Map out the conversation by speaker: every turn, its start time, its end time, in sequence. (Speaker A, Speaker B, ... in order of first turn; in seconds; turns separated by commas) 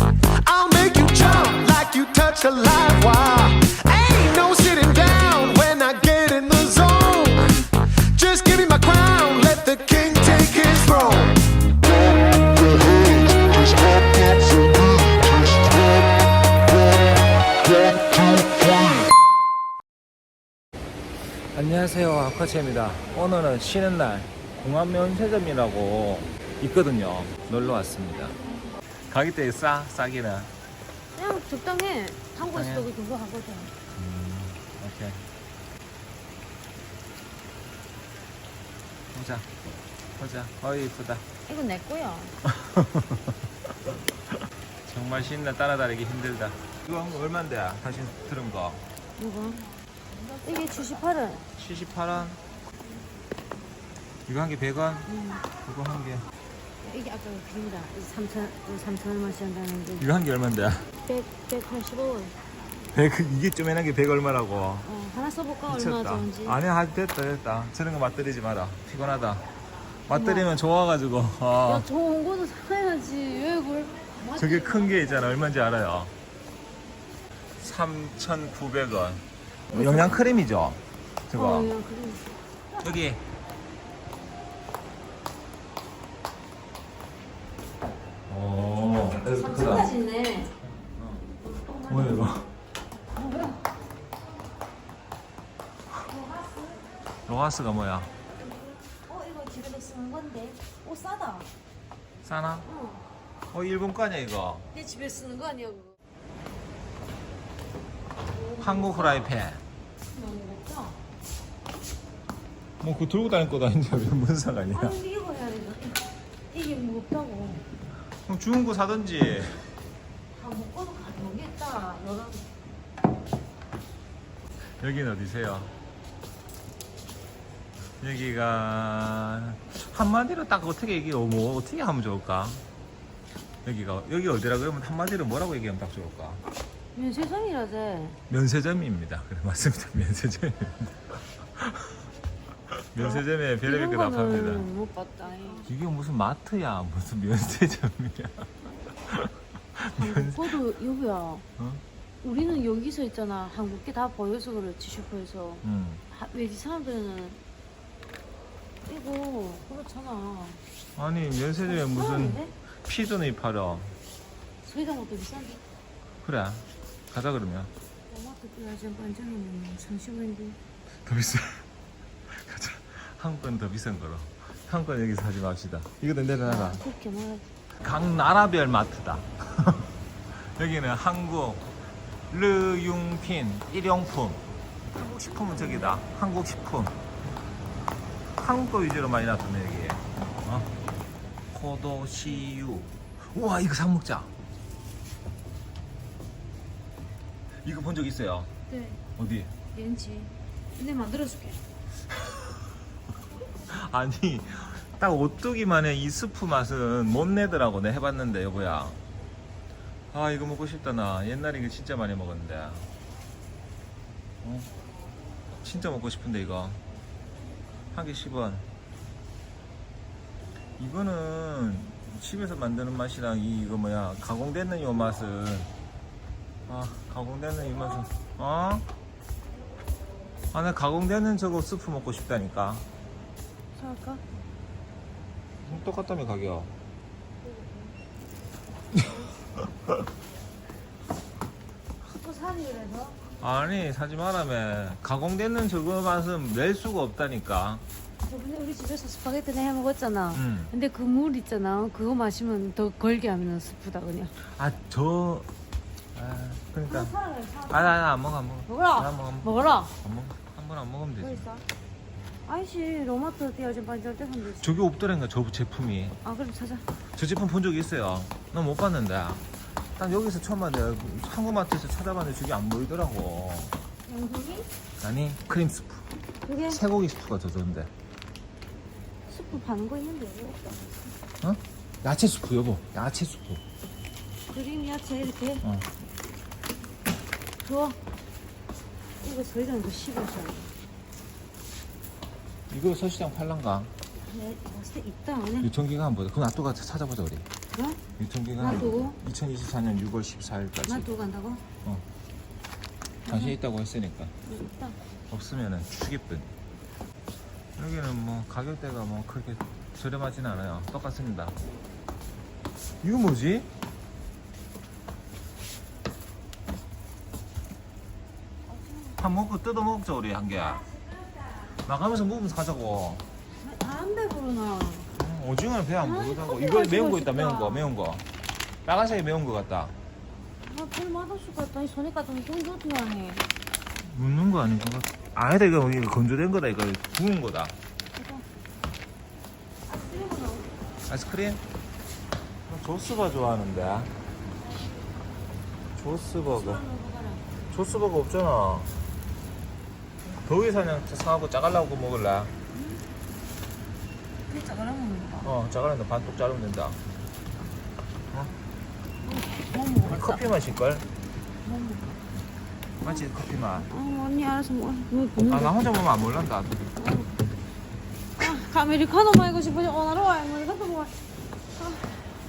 Speaker A: 0.4-7.6, Speaker A: 8.2-11.4, Speaker A: 12.7-15.5, Speaker B: 21.5-28.4, Speaker B: 29.1-30.5, Speaker C: 31.1-33.7, Speaker B: 32.5-32.9, Speaker B: 33.9-35.2, Speaker B: 39.1-39.5, Speaker B: 40.2-41.3, Speaker C: 41.5-42.4, Speaker B: 42.4-43.4, Speaker B: 44.9-48.8, Speaker C: 49.2-49.6, Speaker C: 50.4-51.4, Speaker B: 51.6-52.4, Speaker B: 54.3-56.2, Speaker C: 55.1-55.5, Speaker C: 56.8-60.1, Speaker B: 60.0-60.9, Speaker C: 61.0-62.4, Speaker B: 62.9-64.9, Speaker C: 64.8-66.6, Speaker B: 65.7-69.5, Speaker B: 70.1-71.9, Speaker C: 70.1-70.5, Speaker C: 71.7-75.6, Speaker B: 74.4-76.1, Speaker B: 77.6-81.7, Speaker C: 79.7-80.2, Speaker C: 81.3-82.3, Speaker B: 82.8-83.2, Speaker B: 88.3-89.9, Speaker C: 89.4-90.5, Speaker B: 90.9-91.3, Speaker C: 91.4-92.2, Speaker B: 91.9-92.5, Speaker C: 93.1-93.6, Speaker C: 96.1-96.8, Speaker B: 97.3-98.1, Speaker C: 99.1-101.5, Speaker B: 102.2-102.7, Speaker C: 102.7-103.0, Speaker B: 103.5-104.7, Speaker C: 104.7-106.0, Speaker C: 108.3-109.3, Speaker B: 108.6-109.6, Speaker C: 110.1-111.0, Speaker B: 112.8-115.0, Speaker C: 114.7-117.6, Speaker B: 118.2-119.6, Speaker C: 120.3-122.4, Speaker B: 124.8-125.7, Speaker B: 128.0-132.6, Speaker B: 133.6-136.4, Speaker C: 136.9-138.2, Speaker B: 138.3-141.9, Speaker B: 142.7-144.7, Speaker C: 143.0-145.7, Speaker B: 145.7-148.5, Speaker B: 149.0-150.6, Speaker C: 149.9-151.4, Speaker B: 151.6-151.8, Speaker C: 152.2-157.4, Speaker B: 155.6-156.0, Speaker C: 158.9-160.6, Speaker B: 161.0-164.0, Speaker C: 161.6-162.5, Speaker C: 164.6-165.6, Speaker B: 166.2-167.7, Speaker C: 168.1-170.6, Speaker B: 171.0-171.7, Speaker B: 172.3-176.8, Speaker C: 176.4-177.5, Speaker B: 177.8-181.7, Speaker B: 182.3-187.0, Speaker C: 185.2-186.0, Speaker B: 188.4-190.7, Speaker B: 191.5-194.3, Speaker B: 197.6-198.5, Speaker C: 198.7-199.0, Speaker B: 199.2-199.5, Speaker C: 199.7-201.6, Speaker B: 202.1-202.6, Speaker B: 203.7-209.0, Speaker B: 210.1-212.9, Speaker B: 214.4-214.7, Speaker B: 215.6-216.8, Speaker B: 217.9-218.7, Speaker B: 220.8-225.7, Speaker B: 226.7-228.9, Speaker B: 230.5-232.9, Speaker C: 233.8-234.2, Speaker B: 235.6-236.7, Speaker C: 242.1-243.2, Speaker B: 243.4-247.8, Speaker C: 248.2-254.3, Speaker B: 250.3-250.7, Speaker B: 254.4-255.5, Speaker B: 256.1-257.1, Speaker C: 256.9-258.1, Speaker B: 257.7-261.5, Speaker C: 258.7-259.9, Speaker C: 261.2-261.6, Speaker C: 262.5-264.7, Speaker B: 264.6-266.2, Speaker C: 266.2-266.9, Speaker B: 267.2-269.5, Speaker B: 270.0-273.8, Speaker C: 274.1-274.7, Speaker B: 275.0-276.1, Speaker C: 276.5-276.8, Speaker B: 276.7-277.9, Speaker C: 279.3-280.8, Speaker B: 281.4-283.6, Speaker C: 284.5-285.6, Speaker B: 285.6-285.9, Speaker C: 287.6-288.0, Speaker C: 289.2-290.7, Speaker B: 292.7-293.9, Speaker C: 294.2-295.7, Speaker B: 295.6-297.5, Speaker C: 297.7-298.0, Speaker B: 298.2-301.1, Speaker C: 298.6-299.2, Speaker C: 300.9-301.6, Speaker C: 303.3-303.6, Speaker B: 303.3-304.3, Speaker C: 304.5-305.0, Speaker B: 305.3-306.5, Speaker B: 307.8-311.6, Speaker B: 313.0-313.7, Speaker C: 318.7-319.2, Speaker B: 319.2-320.8, Speaker C: 320.7-321.6, Speaker B: 321.9-323.2, Speaker C: 323.6-325.1, Speaker B: 325.1-328.2, Speaker C: 326.0-327.9, Speaker B: 328.9-329.9, Speaker C: 330.6-333.5, Speaker B: 334.0-337.8, Speaker C: 338.1-338.4, Speaker C: 339.9-340.9, Speaker B: 341.1-341.6, Speaker B: 342.7-344.1, Speaker B: 346.0-346.9, Speaker C: 346.5-347.4, Speaker B: 347.7-348.9, Speaker B: 350.2-352.5, Speaker C: 352.7-353.0, Speaker C: 354.5-355.5, Speaker B: 355.4-357.0, Speaker C: 359.2-360.4, Speaker B: 360.1-361.1, Speaker C: 361.6-362.2, Speaker B: 363.0-363.9, Speaker C: 363.8-365.8, Speaker B: 365.4-366.8, Speaker C: 367.0-367.3, Speaker C: 368.4-371.1, Speaker C: 371.8-372.2